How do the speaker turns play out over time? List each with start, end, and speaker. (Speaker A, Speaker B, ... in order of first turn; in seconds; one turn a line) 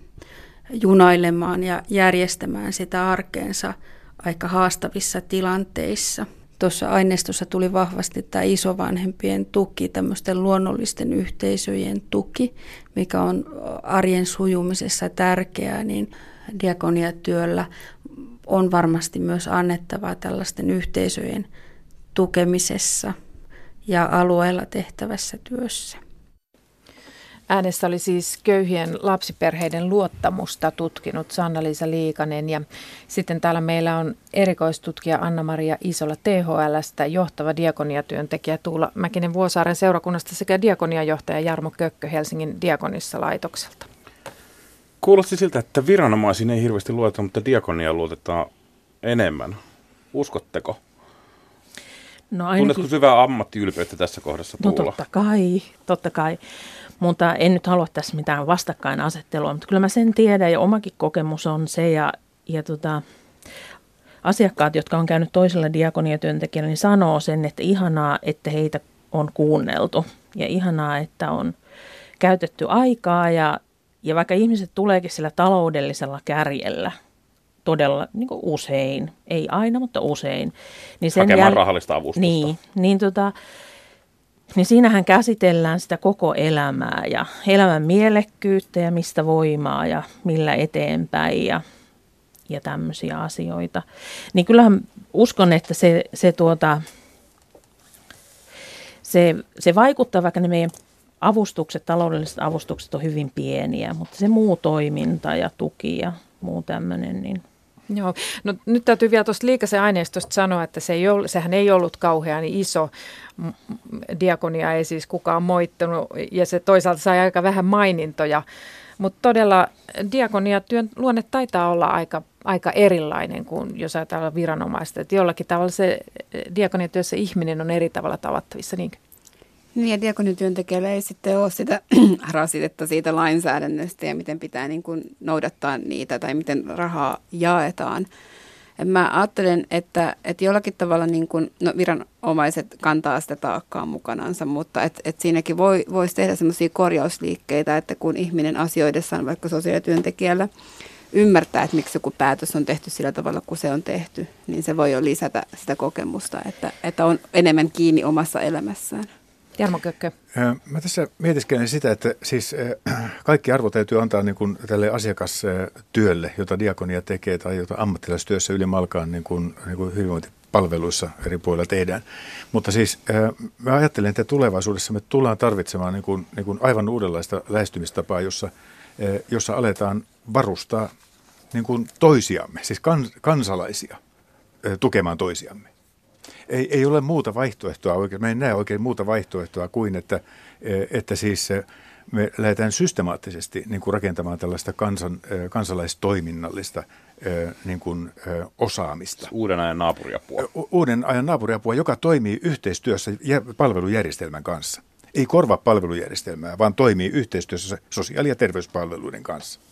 Speaker A: 0.7-17.7
Speaker A: 18.5-21.5
Speaker A: 22.1-23.1
Speaker A: 23.9-26.0
Speaker B: 27.5-43.9
Speaker C: 45.0-48.5
Speaker C: 49.0-49.6
Speaker C: 50.1-50.8
Speaker D: 52.3-52.9
Speaker C: 52.6-55.0
Speaker D: 54.6-56.4
Speaker D: 57.0-63.0
Speaker D: 64.2-71.5
Speaker D: 72.2-76.9
Speaker D: 77.6-81.6
Speaker C: 81.1-82.5
Speaker D: 82.2-83.3
Speaker D: 84.5-91.6
Speaker D: 92.5-96.8
Speaker D: 99.0-107.4
Speaker B: 107.9-118.4
Speaker B: 119.0-129.0
Speaker E: 129.7-138.1
Speaker E: 138.8-150.5
Speaker E: 151.1-159.1
Speaker B: 159.6-160.1
Speaker F: 160.3-180.9
Speaker F: 181.5-184.0
Speaker F: 184.6-185.7
Speaker F: 186.5-199.3
Speaker C: 199.3-200.5
Speaker F: 200.4-209.6